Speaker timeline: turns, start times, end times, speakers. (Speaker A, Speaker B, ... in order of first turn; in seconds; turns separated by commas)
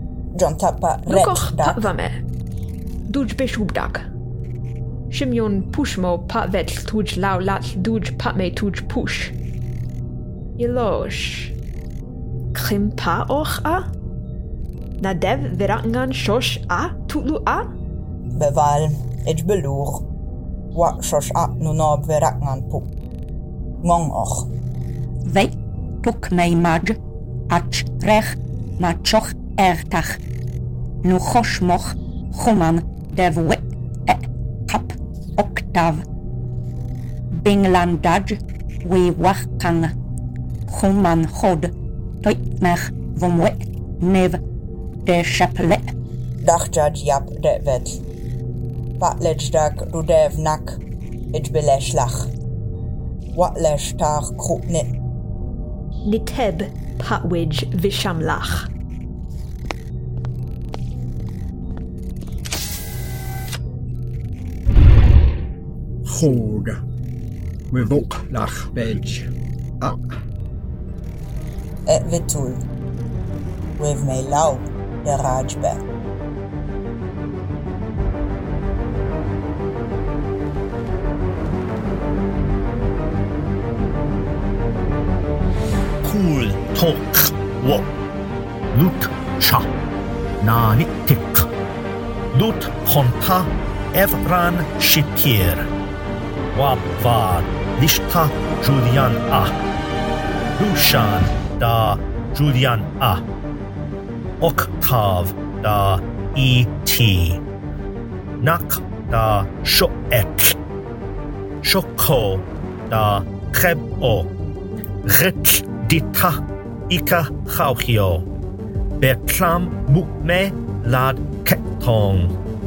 Speaker A: 0.4-1.9, Speaker B: 1.1-2.2, Speaker B: 3.1-4.0, Speaker B: 5.1-9.3, Speaker B: 10.6-11.5, Speaker B: 12.5-13.9, Speaker B: 15.0-17.6, Speaker A: 18.4-20.1, Speaker A: 20.7-22.9, Speaker A: 23.8-24.5, Speaker C: 25.2-27.0, Speaker C: 27.5-30.2, Speaker C: 31.0-36.0, Speaker C: 37.3-39.9, Speaker C: 40.7-44.4, Speaker C: 45.0-45.9, Speaker A: 46.4-48.0, Speaker A: 49.0-50.8, Speaker A: 51.3-52.3, Speaker A: 53.3-54.9, Speaker B: 56.0-58.7, Speaker D: 66.0-66.8, Speaker D: 67.7-70.0, Speaker A: 71.9-72.6, Speaker A: 73.8-75.8, Speaker E: 86.0-87.9, Speaker E: 88.7-89.7, Speaker E: 90.4-91.5, Speaker E: 92.3-95.7, Speaker E: 96.5-99.5, Speaker E: 100.6-103.2, Speaker E: 104.4-107.4, Speaker E: 108.4-110.6, Speaker E: 111.6-114.3, Speaker E: 115.0-118.3, Speaker E: 119.0-122.3